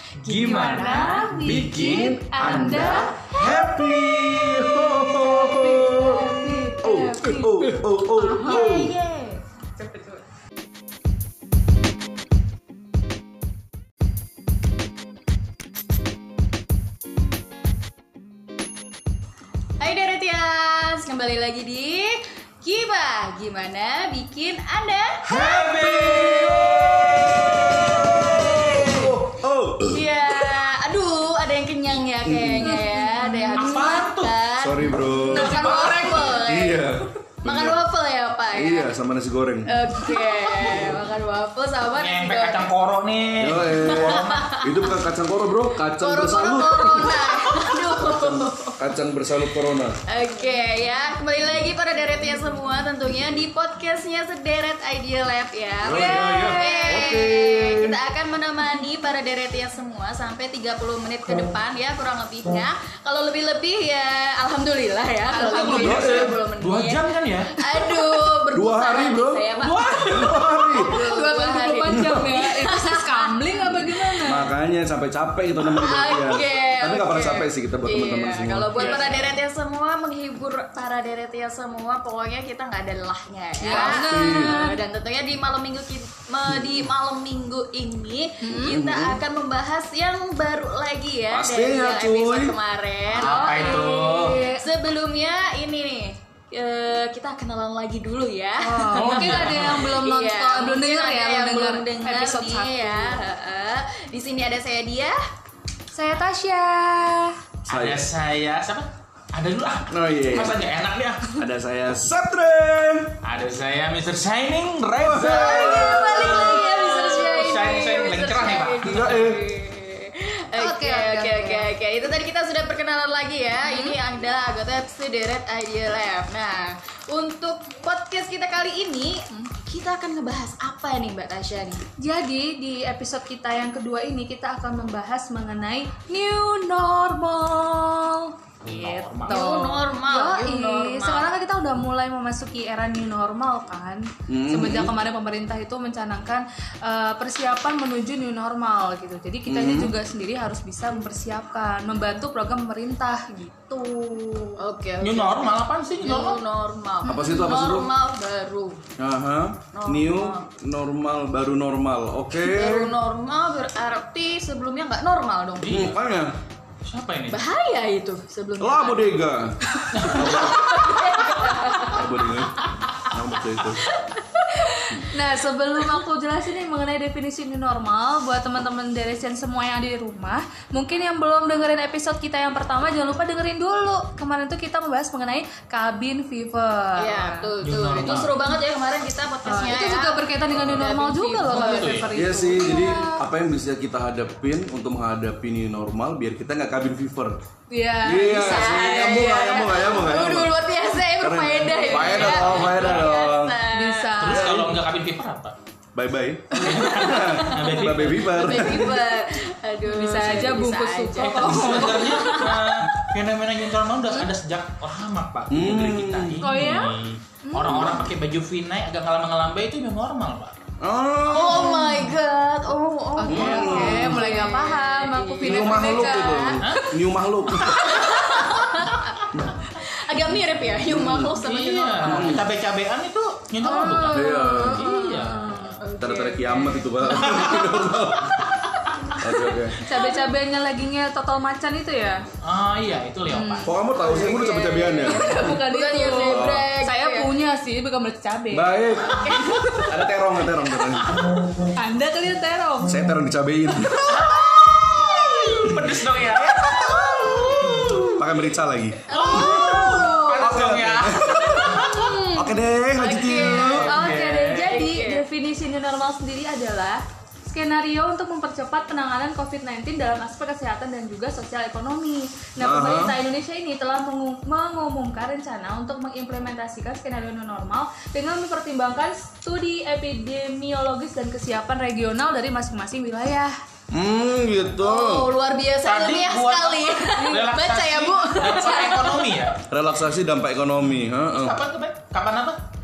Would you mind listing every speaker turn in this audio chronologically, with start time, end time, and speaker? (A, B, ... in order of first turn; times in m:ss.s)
0:00.2-0:03.1 A
0:00.2-0:01.3 B
0:00.4-0:03.2 C
0:01.4-0:08.9 D
0:05.0-0:09.0 C
0:08.3-0:10.2 B
0:19.8-0:25.3 B
0:25.2-0:30.4 D
0:25.3-0:27.4 A
0:27.7-0:29.1 B
0:28.5-0:29.1 A
0:29.9-0:38.9 B
0:32.2-0:32.8 D
0:32.6-0:33.9 C
0:33.5-0:34.4 A
0:34.6-0:37.8 D
0:35.1-0:36.4 A
0:38.5-0:39.9 D
0:39.6-0:42.6 B
0:41.9-0:44.4 A
0:43.4-0:47.4 D
0:43.8-0:45.0 B
0:45.9-0:48.8 B
0:48.0-0:50.0 D
0:50.1-1:07.0 B
0:55.8-0:58.0 D
0:55.8-0:57.1 C
1:05.3-1:06.1 C
1:05.6-1:07.6 A
1:05.8-1:06.3 D
1:07.6-1:14.2 B
1:08.5-1:09.4 D
1:09.6-1:10.5 A
1:10.1-1:10.9 D
1:10.8-1:14.5 C
1:11.9-1:12.3 D
1:14.2-1:18.8 D
1:15.6-1:45.2 B
1:18.7-1:19.4 A
1:23.6-1:24.8 C
1:23.6-1:24.6 D
1:26.5-1:26.8 D
1:28.4-1:28.8 C
1:28.6-1:29.2 D
1:31.3-1:32.6 D
1:33.1-1:34.4 A
1:33.2-1:34.7 C
1:38.6-1:43.2 C
1:38.9-1:40.0 A
1:45.9-1:47.4 C
1:47.7-1:51.4 A
1:47.7-1:48.1 D
1:49.9-1:50.6 D
1:51.3-1:53.1 D
1:53.2-1:59.1 A
1:55.0-1:56.5 D
1:55.2-2:11.8 B
1:55.6-1:57.7 C
1:58.8-1:59.4 D
2:00.6-2:01.7 C
2:03.6-2:04.0 C
2:12.0-2:34.6 C
2:18.6-2:19.6 A
2:19.3-2:21.4 B
2:24.3-2:24.9 D
2:29.5-2:29.9 D
2:34.6-2:38.8 B
2:35.0-2:36.4 A
2:37.0-2:37.9 D
2:37.1-2:37.4 C
2:39.0-2:42.9 D
2:39.7-2:40.4 B
2:42.3-2:45.9 B
2:45.6-2:46.0 A
2:45.7-2:46.4 D
2:46.8-2:47.4 A
2:47.3-2:49.3 B
2:48.6-2:50.9 D
2:49.8-2:52.9 B
2:49.9-2:50.4 A
2:51.2-2:51.8 C
2:51.9-2:53.8 D
2:53.6-2:55.0 B
2:54.6-3:07.5 C
3:07.0-3:12.1 B
3:07.6-3:08.5 A
3:09.4-3:13.2 C
3:10.5-3:10.9 D
3:11.4-3:12.1 A
3:12.1-3:17.4 D
3:17.7-3:19.6 C
3:18.0-3:20.6 D
3:18.3-3:24.1 B
3:21.2-3:23.6 D
3:21.9-3:23.2 A
3:23.7-3:24.6 C
3:24.2-3:25.5 A
3:24.3-3:24.8 D
3:25.9-3:29.1 D
3:26.6-3:28.9 A
3:26.6-3:32.9 B
3:29.8-3:32.5 C
3:31.2-3:40.6 A
3:35.5-3:36.7 D
3:36.4-3:38.0 C
3:40.8-3:41.8 D
3:41.2-3:46.4 B
3:41.5-3:42.1 C
3:43.2-3:46.9 C
3:43.2-3:44.3 D
3:45.4-3:48.1 D
3:47.5-3:48.1 C
3:47.6-3:52.4 B
3:50.8-3:51.3 D
3:51.4-3:55.8 A
3:52.0-3:52.4 D
3:53.6-3:55.8 C
3:54.1-3:54.8 D
3:54.8-3:58.0 B
3:55.9-3:58.4 D
3:59.2-3:59.6 B
3:59.2-3:59.8 D
3:59.8-4:02.2 C
4:02.4-4:03.7 A
4:03.3-4:03.7 C
4:03.6-4:05.6 D
4:04.0-4:07.3 B
4:05.0-4:08.7 C
4:06.1-4:06.7 D
4:08.5-4:11.2 D
4:09.1-4:10.0 B
4:11.6-4:13.1 C
4:12.8-4:15.6 D
4:14.1-4:14.4 A
4:14.2-4:15.6 B
4:15.2-4:16.7 A
4:16.3-4:17.4 D
4:16.6-4:18.2 B
4:17.7-4:18.2 A
4:18.1-4:23.9 D
4:19.1-4:20.7 B
4:19.1-4:22.1 A
4:21.7-4:25.2 B
4:23.3-4:43.5 C
4:23.9-4:24.6 A
4:32.6-4:33.2 D
4:43.9-4:45.3 D
4:44.8-4:49.5 B
4:45.8-4:49.6 A
4:47.2-4:47.5 C
4:49.7-4:51.6 D
4:51.2-4:52.6 A